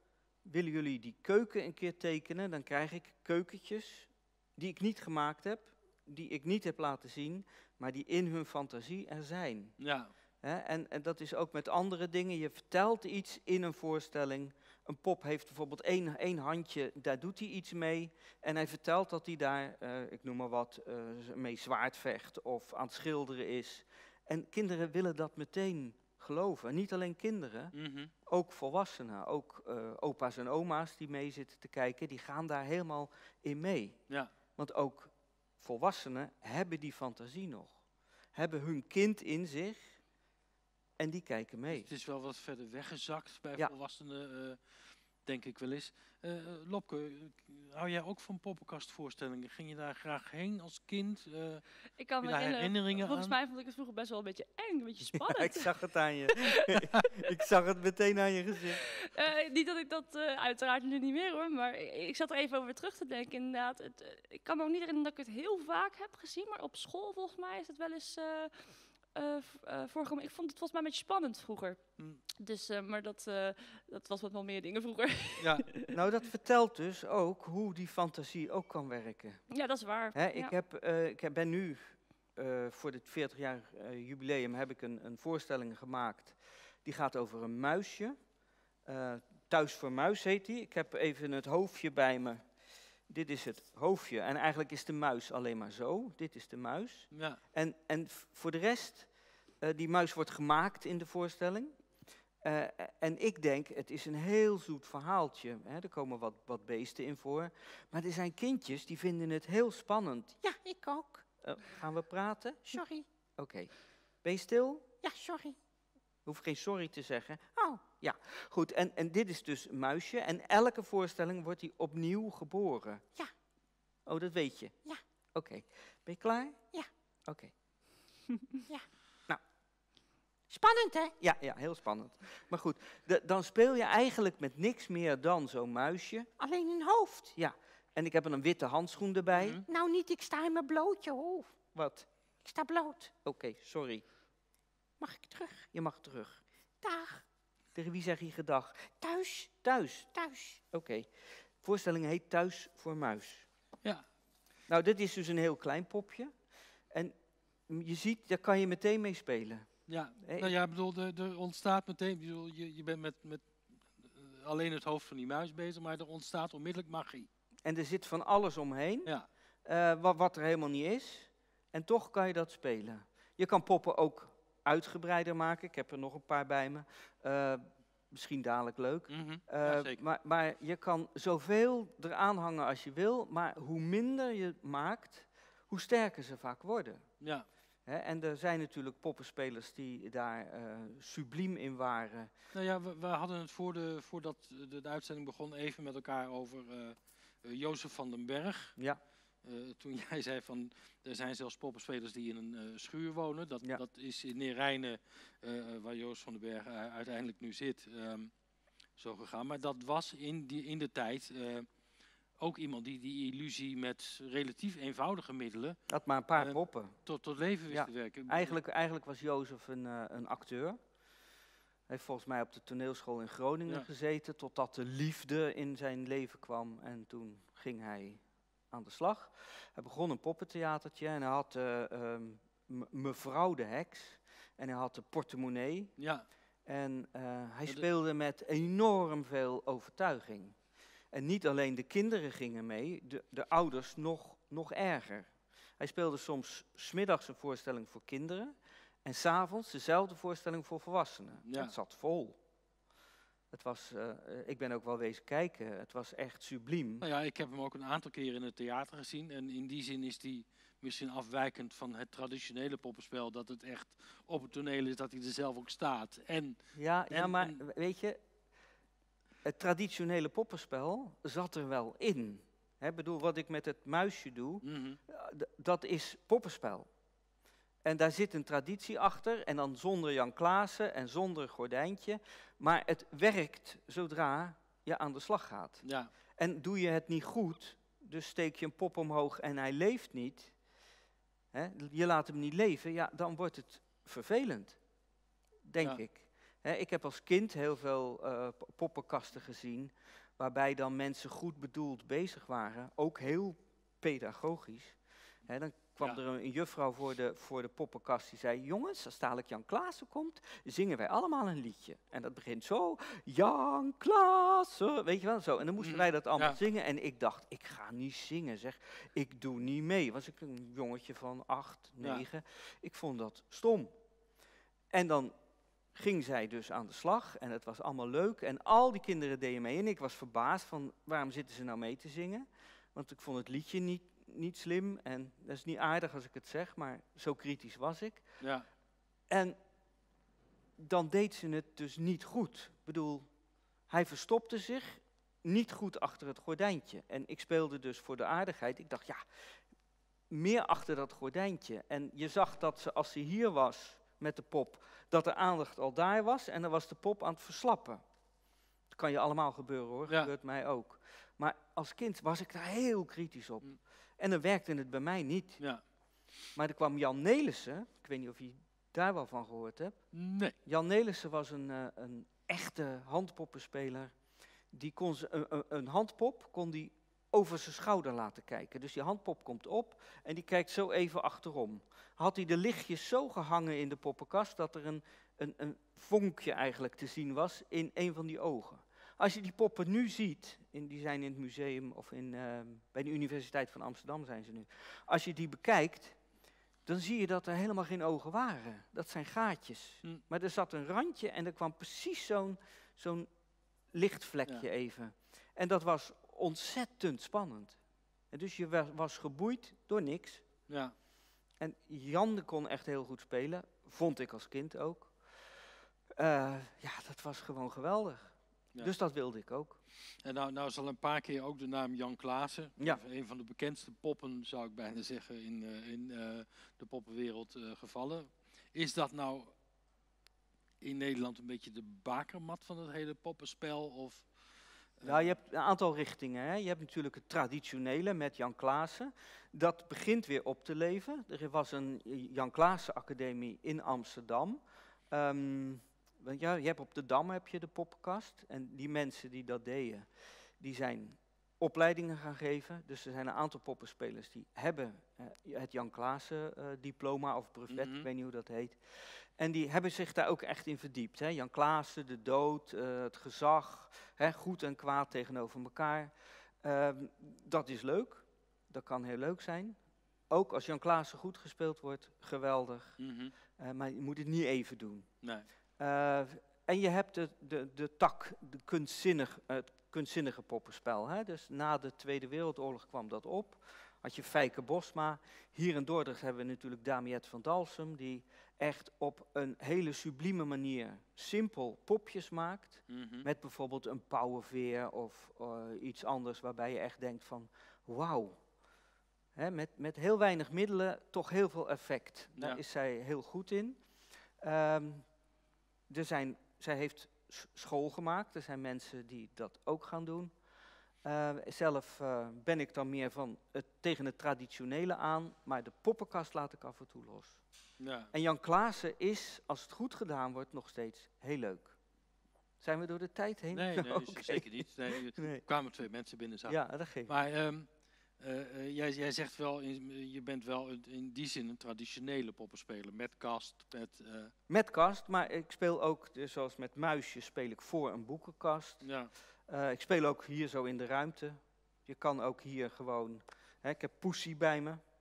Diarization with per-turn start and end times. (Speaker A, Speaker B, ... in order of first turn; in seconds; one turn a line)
Speaker A: 0.4-9.8
Speaker B: 9.8-10.1
Speaker A: 10.4-27.7
Speaker B: 27.7-28.1
Speaker A: 28.2-34.0
Speaker A: 34.5-37.8
Speaker A: 38.3-40.0
Speaker A: 41.0-41.9
Speaker B: 41.7-44.6
Speaker B: 45.2-51.6
Speaker C: 52.0-55.7
Speaker B: 52.2-53.3
Speaker A: 55.1-58.8
Speaker C: 59.0-75.9
Speaker B: 72.0-72.2
Speaker B: 75.4-75.6
Speaker A: 75.9-79.5
Speaker C: 79.5-80.5
Speaker A: 80.1-88.2
Speaker A: 88.8-92.5
Speaker A: 93.1-101.8
Speaker B: 97.1-97.4
Speaker A: 102.4-110.4
Speaker D: 110.4-111.3
Speaker A: 111.4-112.8
Speaker D: 112.7-113.0
Speaker A: 113.4-114.9
Speaker D: 115.0-115.6
Speaker A: 116.2-123.0
Speaker A: 124.0-124.8
Speaker A: 125.3-126.6
Speaker A: 127.3-127.5
Speaker D: 130.5-131.2
Speaker A: 131.2-136.3
Speaker D: 136.4-137.3
Speaker A: 137.3-139.6
Speaker B: 139.3-139.6
Speaker D: 139.6-141.6
Speaker A: 141.7-142.1
Speaker D: 142.4-143.1
Speaker A: 143.1-144.1
Speaker D: 145.0-145.7
Speaker A: 145.6-146.4
Speaker D: 146.8-147.2
Speaker A: 147.7-149.0
Speaker D: 149.0-150.6
Speaker A: 149.6-150.1
Speaker A: 150.7-153.5
Speaker A: 154.7-156.4
Speaker A: 156.9-157.1
Speaker A: 157.7-160.5
Speaker B: 159.9-167.3
Speaker A: 167.6-187.1
Speaker B: 179.1-180.0
Speaker B: 187.2-187.4
Speaker A: 187.8-192.3
Speaker B: 192.5-198.7
Speaker B: 199.4-208.3
Speaker B: 208.9-211.7
Speaker B: 212.4-215.8
Speaker A: 215.9-217.0
Speaker B: 216.3-218.6
Speaker A: 217.7-220.8
Speaker A: 221.9-236.0
Speaker B: 236.0-236.2
Speaker A: 236.6-240.6
Speaker A: 241.1-252.4
Speaker B: 251.4-251.7
Speaker A: 253.5-257.1
Speaker B: 257.0-267.6
Speaker A: 266.7-268.2
Speaker A: 269.4-276.9
Speaker B: 274.6-275.0
Speaker A: 277.8-290.6
Speaker B: 285.8-286.1
Speaker A: 291.5-294.8
Speaker A: 295.6-324.0
Speaker B: 315.8-316.6
Speaker A: 324.9-325.3
Speaker A: 325.9-338.2
Speaker B: 338.4-338.6
Speaker A: 339.3-339.6
Speaker A: 340.8-343.3
Speaker A: 343.9-349.2
Speaker A: 350.3-358.0
Speaker A: 358.9-365.9
Speaker B: 360.1-360.3
Speaker A: 366.5-374.2
Speaker B: 370.1-370.5
Speaker A: 374.7-396.2
Speaker A: 396.8-403.3
Speaker A: 403.9-407.8
Speaker A: 408.3-410.4
Speaker B: 410.7-410.9
Speaker A: 411.6-419.8
Speaker B: 420.2-429.5
Speaker B: 430.8-435.2
Speaker A: 435.0-469.8
Speaker B: 457.7-458.1
Speaker A: 470.3-473.0
Speaker B: 473.0-473.3
Speaker A: 473.6-475.1
Speaker A: 475.8-498.4
Speaker B: 492.9-493.3
Speaker A: 499.3-503.8
Speaker A: 504.4-505.1
Speaker A: 505.9-510.4
Speaker A: 511.0-517.4
Speaker B: 517.8-518.1
Speaker A: 518.1-521.8
Speaker A: 522.6-525.4
Speaker B: 523.5-534.3
Speaker A: 526.5-527.1
Speaker A: 534.5-538.9
Speaker B: 538.8-539.1
Speaker A: 539.5-544.8